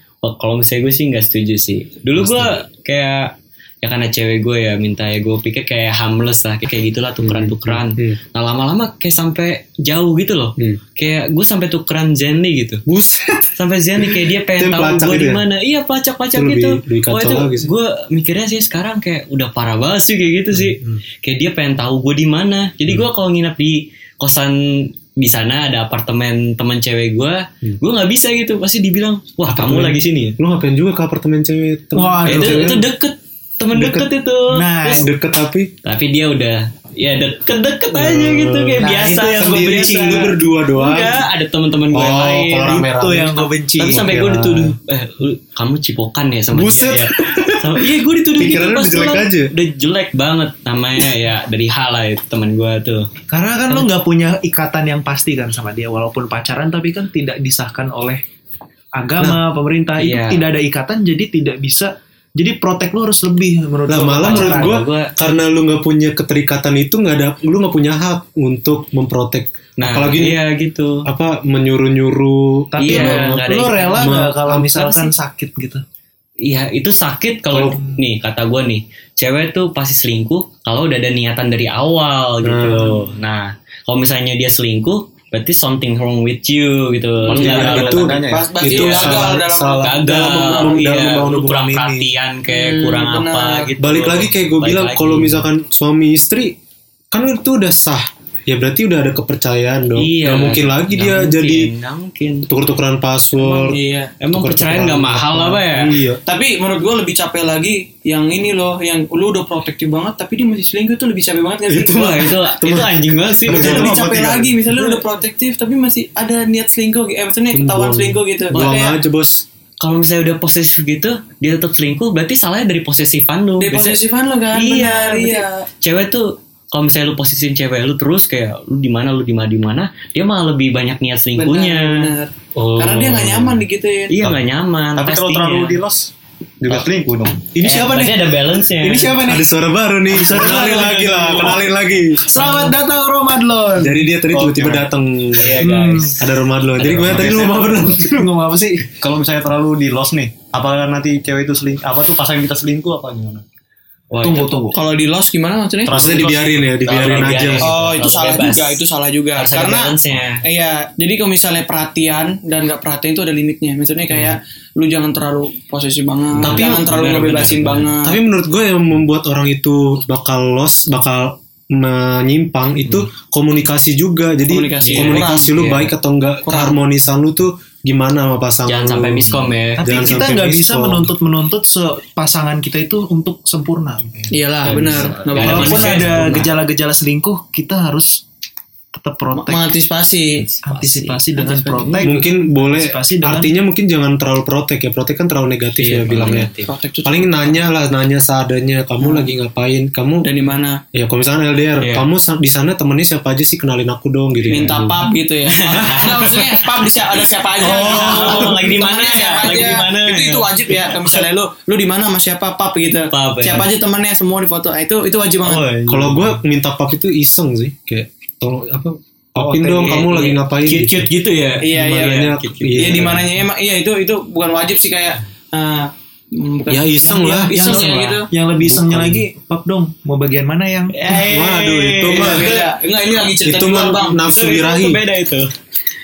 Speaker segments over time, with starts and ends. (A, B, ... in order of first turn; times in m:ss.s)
0:00.2-0:12.8 A
0:02.2-0:02.6 B
0:07.2-0:08.2 B
0:12.8-0:15.4 B
0:13.6-0:30.4 A
0:16.3-0:17.7 B
0:20.5-0:21.0 B
0:29.5-0:32.8 B
0:31.9-0:32.7 C
0:32.2-0:35.1 A
0:33.7-0:34.1 B
0:34.5-0:35.1 C
0:34.9-0:35.7 B
0:35.8-0:42.9 A
0:37.9-0:41.2 B
0:38.8-0:40.3 C
0:41.9-0:44.8 B
0:42.8-0:44.0 C
0:43.8-0:53.1 A
0:46.5-0:49.5 B
0:53.3-0:58.2 C
0:58.9-1:04.8 C
1:00.0-1:00.4 A
1:03.9-1:10.4 B
1:04.2-1:05.1 A
1:09.8-1:11.0 A
1:11.0-1:13.4 B
1:12.7-1:15.8 C
1:12.8-1:14.2 A
1:14.0-1:15.0 B
1:16.4-1:29.2 A
1:17.5-1:17.8 B
1:22.4-1:23.1 B
1:27.2-1:28.9 D
1:27.3-1:32.1 B
1:28.3-1:30.8 E
1:29.8-1:35.4 A
1:32.5-1:33.7 E
1:33.8-1:36.5 B
1:37.1-1:41.7 B
1:40.0-1:42.5 A
1:42.5-1:43.8 B
1:43.4-1:44.1 E
1:44.2-1:45.9 A
1:44.3-1:46.2 B
1:46.2-1:52.0 E
1:51.7-1:54.0 B
1:51.9-1:53.9 A
1:53.5-1:54.6 D
1:53.5-1:59.0 E
1:57.5-1:59.4 B
1:59.8-2:04.0 A
2:03.6-2:05.6 E
2:04.5-2:12.1 A
2:11.4-2:14.1 E
2:12.5-2:13.6 B
2:14.1-2:15.8 A
2:15.0-2:17.5 D
2:17.5-2:19.5 C
2:17.6-2:18.1 B
2:17.6-2:19.2 A
2:19.2-2:22.7 B
2:20.1-2:21.6 C
2:22.2-2:24.1 C
2:23.8-2:25.6 B
2:24.3-2:24.9 D
2:25.4-2:26.2 A
2:25.6-2:26.2 C
2:26.2-2:28.3 B
2:26.8-2:27.9 A
2:27.4-2:28.8 C
2:29.0-2:33.4 D
2:34.1-2:34.5 A
2:34.2-2:34.8 C
2:34.7-2:36.0 E
2:35.9-2:37.7 B
2:35.9-2:37.8 D
2:36.8-2:38.8 A
2:37.6-2:48.2 E
2:39.4-2:40.4 A
2:46.4-2:47.9 A
2:46.4-2:46.9 B
2:48.0-3:01.1 B
2:54.5-2:55.5 E
2:54.8-2:55.9 A
2:56.4-2:56.8 E
2:58.6-3:00.3 A
2:59.8-3:04.3 C
3:04.3-3:06.1 E
3:04.6-3:06.5 A
3:05.4-3:08.2 C
3:08.9-3:09.7 C
3:09.3-3:10.4 E
3:10.4-3:12.1 A
3:10.6-3:13.5 C
3:12.0-3:16.5 B
3:15.8-3:16.7 A
3:16.2-3:17.6 E
3:17.0-3:20.3 B
3:19.0-3:19.3 E
3:20.2-3:20.8 E
3:20.9-3:25.0 B
3:21.8-3:22.1 A
3:24.5-3:24.8 A
3:24.5-3:35.6 E
3:25.5-3:26.7 A
3:27.6-3:31.2 A
3:27.6-3:28.5 B
3:33.1-3:33.7 A
3:35.4-3:36.3 A
3:35.9-3:41.1 B
3:39.4-3:43.2 A
3:41.6-3:48.3 E
3:41.6-3:43.2 B
3:46.7-3:47.8 B
3:47.5-3:50.9 C
3:47.6-3:48.2 A
3:48.6-3:49.2 B
3:50.9-3:52.7 A
3:51.1-3:52.6 B
3:52.1-3:54.4 E
3:53.4-3:55.0 B
3:54.3-3:55.5 A